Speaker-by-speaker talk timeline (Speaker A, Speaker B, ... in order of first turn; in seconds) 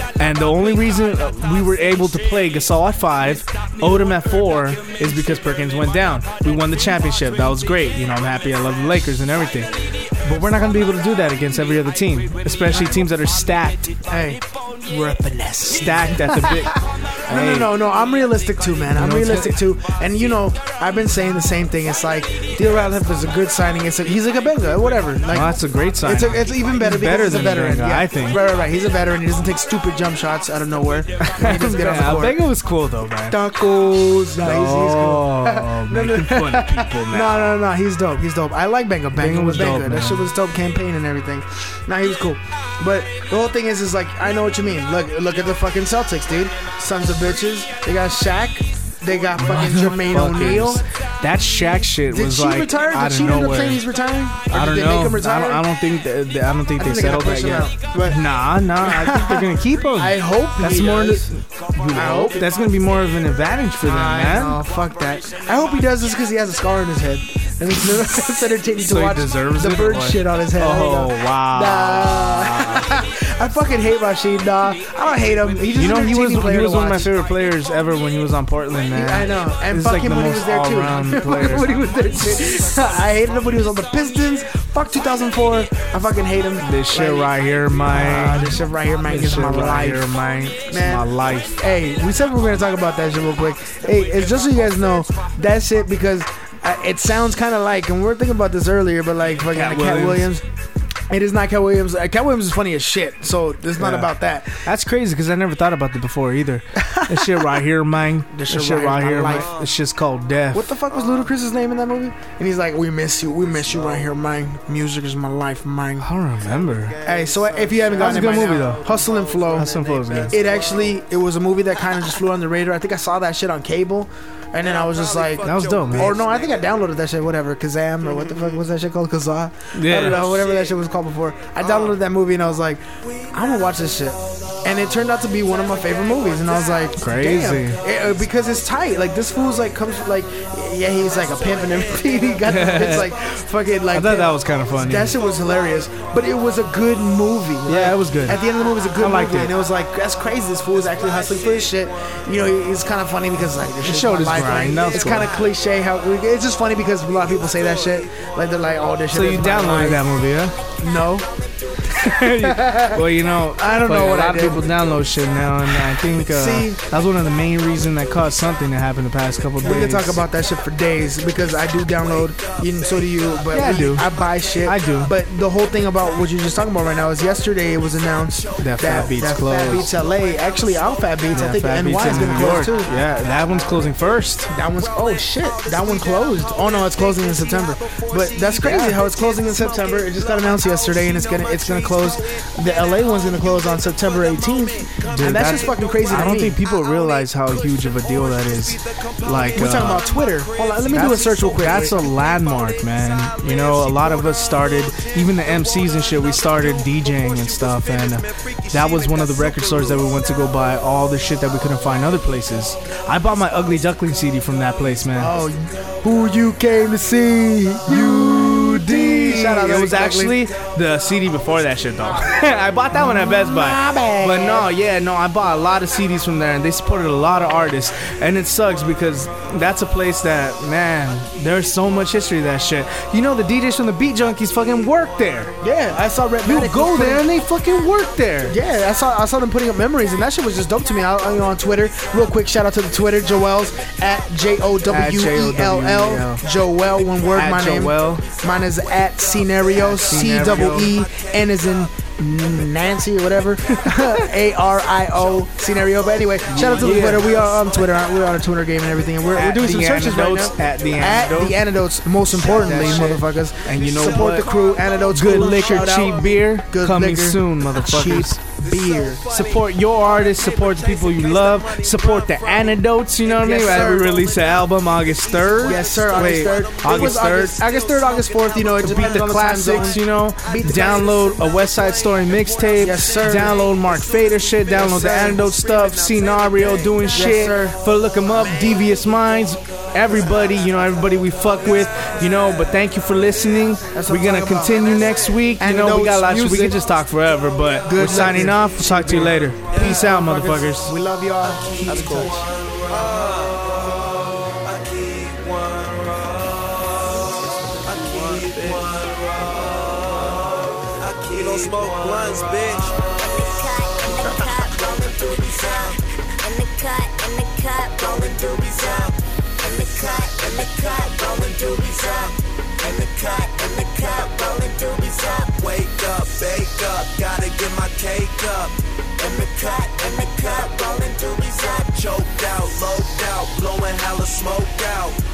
Speaker A: 0.2-13.9, 15.7-17.8, 18.9-19.6, 25.3-28.4, 31.2-33.4, 34.4-37.5, 39.1-40.3, 49.4-53.8, 54.5-64.6, 68.8-73.0, 75.7-81.7, 86.6-91.6, 99.4-100.3, 103.8-110.8, 116.0-117.2, 118.0-118.9, 119.5-120.4, 125.4-126.2, 129.7-130.5, 137.0-137.8, 142.4-143.1, 143.9-145.2, 147.7-148.4, 149.0-149.6, 153.8-155.4, 159.1-160.6, 161.9-170.2, 173.5-175.1, 178.6-179.9, 181.3-184.5, 188.6-189.0, 195.1-200.1, 200.9-215.3, 217.9-235.6, 236.4-238.6, 244.9-246.4, 247.3-248.3, 249.8-250.9, 253.8-254.2, 256.5-257.4, 259.3-261.6, 262.4-268.4, 269.2-277.8, 278.8-300.9
Speaker B: 14.1-32.4, 33.3-50.8, 52.1-55.6, 56.8-61.3, 61.9-62.5, 63.9-77.2, 78.9-90.1, 90.7-100.5, 101.1-104.6, 106.8-107.5, 108.3-109.5, 110.5-116.1, 117.0-160.1, 160.8-161.3, 161.8-164.8, 165.8-166.8, 169.6-182.9, 184.5-196.6, 199.5-202.0, 215.2-220.4, 222.9-224.7, 235.6-237.3, 238.5-269.3, 273.3-274.2, 275.6-281.3, 282.8-283.7, 284.7-285.5, 287.1-287.8, 293.9-296.8, 297.9-302.5, 308.0-309.0, 311.3-311.9
Speaker C: 125.6-126.5, 186.2-187.5, 188.8-189.6, 191.5-192.0, 269.6-272.8, 273.5-274.7, 275.4-276.6, 302.9-303.6, 304.9-305.9, 308.0-308.5, 311.2-313.1, 314.5-315.9, 325.2-328.8, 331.7-335.2
Speaker D: 313.0-325.7, 329.2-332.1